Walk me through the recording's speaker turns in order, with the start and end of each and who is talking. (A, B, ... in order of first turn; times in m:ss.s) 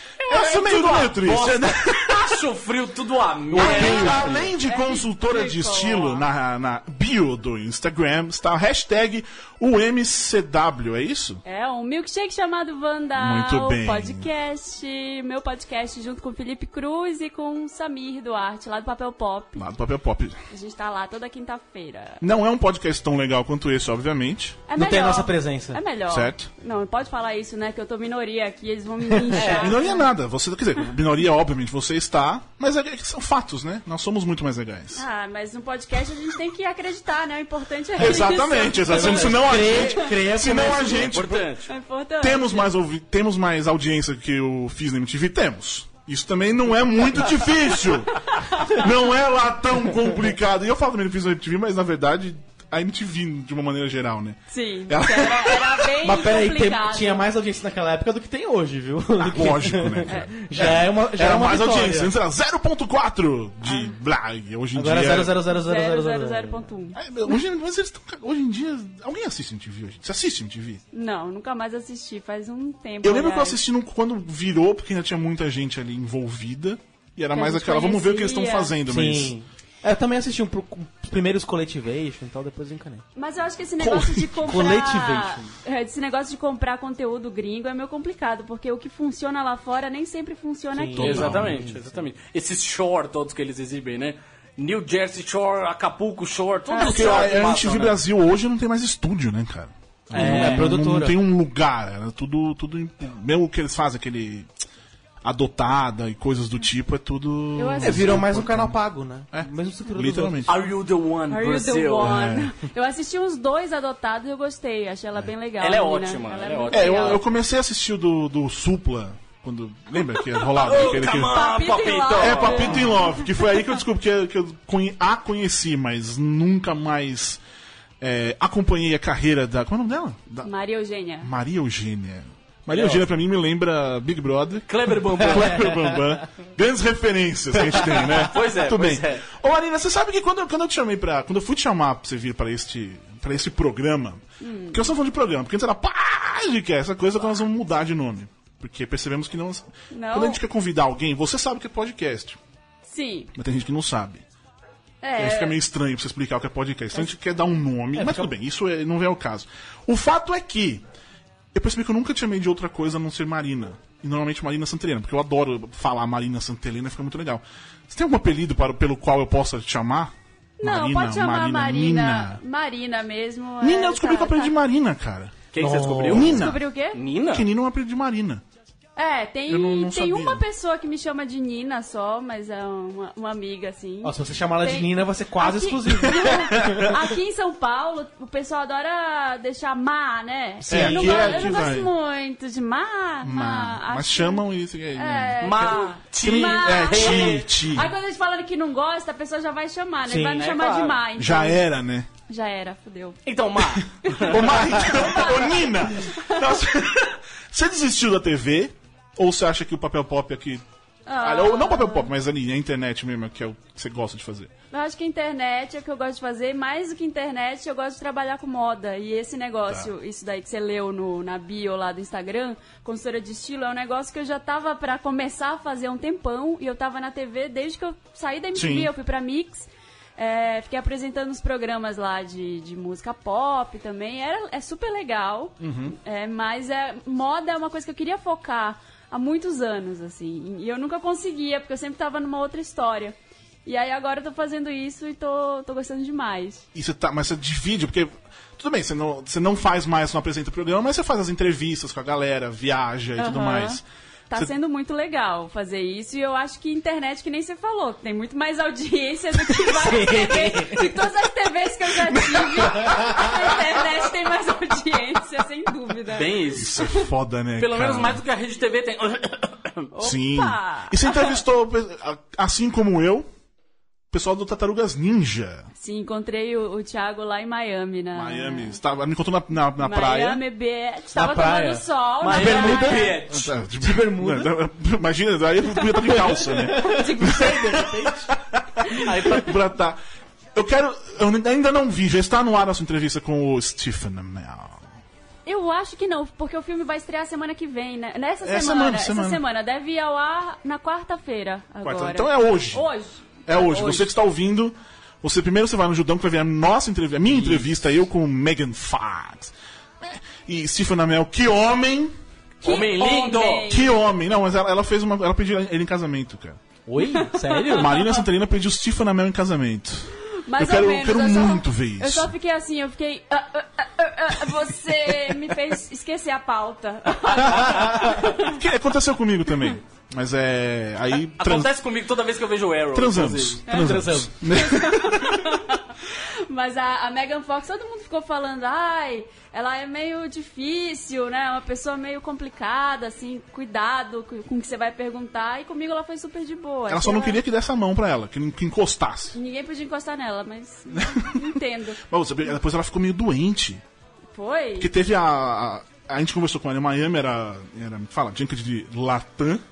0:00.2-0:04.5 A
0:00.3-0:02.4 B
0:03.5-0:11.4 B
0:03.6-0:04.0 C
0:03.6-0:06.2 D
0:11.4-0:19.6 D
0:13.1-0:14.3 B
0:19.6-0:20.4 B
0:20.5-0:22.2 D
0:22.2-0:24.6 B
0:24.7-0:30.1 D
0:24.7-0:25.8 C
0:26.1-0:26.5 B
0:29.3-0:29.7 C
0:29.4-0:35.0 B
0:34.9-0:40.9 D
0:38.0-0:41.5 B
0:38.8-0:41.1 C
0:40.9-0:41.7 A
0:41.7-0:42.7 D
0:42.2-0:55.9 B
0:48.2-0:48.9 D
0:54.5-0:57.2 D
0:56.0-1:02.1 C
0:59.2-1:05.4 B
1:00.0-1:00.3 D
1:03.6-1:03.9 D
1:04.7-1:06.7 C
1:05.5-1:07.4 D
1:06.9-1:10.8 B
1:10.9-1:13.6 D
1:13.0-1:19.3 B
1:17.3-1:18.8 D
1:18.8-1:23.0 C
1:23.2-1:31.3 D
1:23.8-1:24.6 B
1:24.5-1:25.5 C
1:30.7-1:32.0 C
1:30.9-1:31.6 B
1:31.0-1:38.0 A
1:36.7-1:44.5 B
1:40.1-1:40.7 A
1:40.1-1:41.2 C
1:45.2-1:50.6 B
1:47.6-1:48.2 D
1:47.8-1:50.4 C
1:50.4-1:52.2 A
1:51.3-1:57.2 D
1:52.0-1:52.5 B
1:55.6-1:57.2 A
1:56.7-2:01.5 B
2:00.5-2:02.9 A
2:00.7-2:03.3 D
2:02.2-2:07.4 B
2:08.0-2:10.5 B
2:10.4-2:11.3 D
2:11.2-2:32.4 B
2:12.7-2:13.1 A
2:14.7-2:15.8 A
2:15.4-2:16.0 C
2:17.7-2:19.2 A
2:24.4-2:24.9 D
2:29.9-2:30.4 D
2:32.8-2:33.3 D
2:33.3-2:34.2 B
2:35.0-2:35.6 D
2:35.2-2:40.8 B
2:37.9-2:38.3 C
2:41.5-2:52.4 B
2:50.6-2:54.5 D
2:53.6-2:55.4 B
2:55.5-2:57.5 A
2:55.6-2:56.3 C
2:56.1-2:56.6 B
2:56.3-2:57.0 D
2:57.3-2:58.4 B
2:59.0-3:21.6 D
2:59.5-3:00.4 B
3:04.0-3:07.0 C
3:10.7-3:11.9 B
3:10.7-3:11.0 C
3:11.0-3:11.5 A
3:13.2-3:17.9 B
3:15.4-3:17.5 A
3:20.0-3:20.4 C
3:20.4-3:21.0 A
3:21.2-3:22.1 B
3:22.3-3:23.2 D
3:23.2-3:24.7 A
3:24.1-3:26.4 D
3:24.2-3:30.6 B
3:31.0-3:32.1 D
3:31.2-3:34.5 B
3:34.7-4:03.1 D
3:48.5-3:48.9 B
3:55.6-3:56.0 B
4:03.6-4:06.6 D
4:06.7-4:14.5 B
4:13.2-4:27.0 D
4:19.6-4:21.0 C
4:22.0-4:23.9 B
4:26.1-4:26.8 A
4:26.5-4:28.2 B
4:27.6-4:29.9 A
4:29.9-4:31.4 D
4:30.0-4:33.3 B
4:34.1-4:35.7 B
4:35.8-4:38.8 D
4:38.1-4:40.4 B
4:39.8-4:43.2 D
4:41.1-4:44.5 C
4:42.2-4:43.5 A
4:43.3-4:50.0 B
4:46.1-4:48.3 C
4:46.8-4:47.8 D
4:48.9-4:49.5 A
4:50.5-4:54.9 B
4:55.4-5:04.1 D
4:58.4-4:59.4 B
5:01.8-5:02.8 B
5:03.4-5:12.2 B
5:07.3-5:07.6 C
5:12.6-5:14.0 D
5:12.6-5:13.7 A
5:13.7-5:16.6 B
5:16.9-5:18.0 C
5:17.0-5:18.2 D
5:17.7-5:22.3 B
5:20.3-5:28.6 D
5:28.4-5:31.7 B
5:31.4-5:34.0 A
5:32.9-5:35.5 B
5:33.7-5:34.0 D
5:33.8-5:34.3 C
5:34.5-5:35.9 D
5:36.5-5:47.4 D
5:46.9-5:49.4 B
5:49.3-5:52.0 D
5:50.9-5:53.8 B
5:54.3-5:54.9 D
5:54.8-5:59.6 B